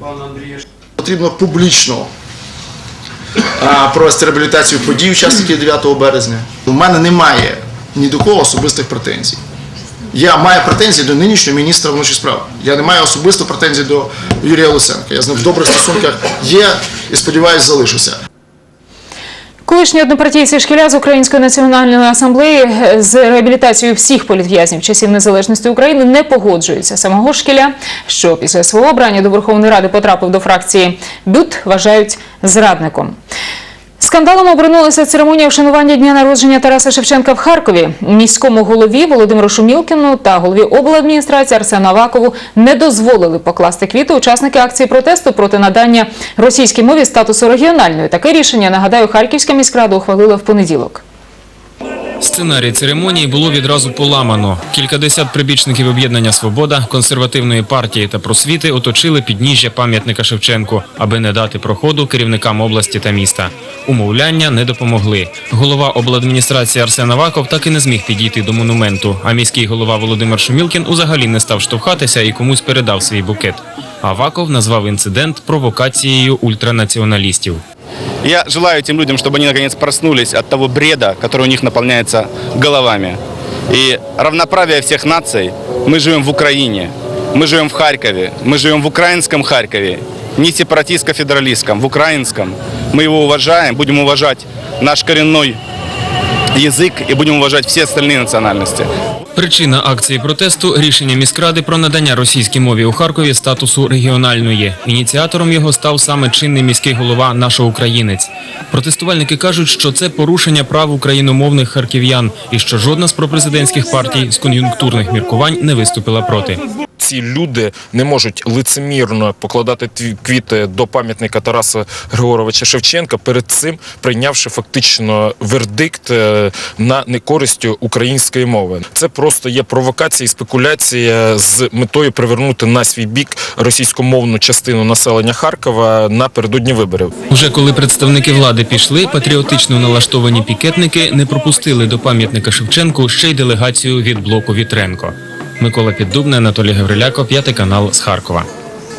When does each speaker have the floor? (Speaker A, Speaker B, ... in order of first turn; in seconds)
Speaker A: 1.0-2.1, 3.4-9.4, 10.1-18.2
Speaker B: 19.7-33.1, 34.0-51.0
Speaker C: 52.2-77.6, 99.3-116.6, 137.3-148.5
Speaker D: 78.2-95.6, 96.5-98.9
Speaker E: 117.0-137.1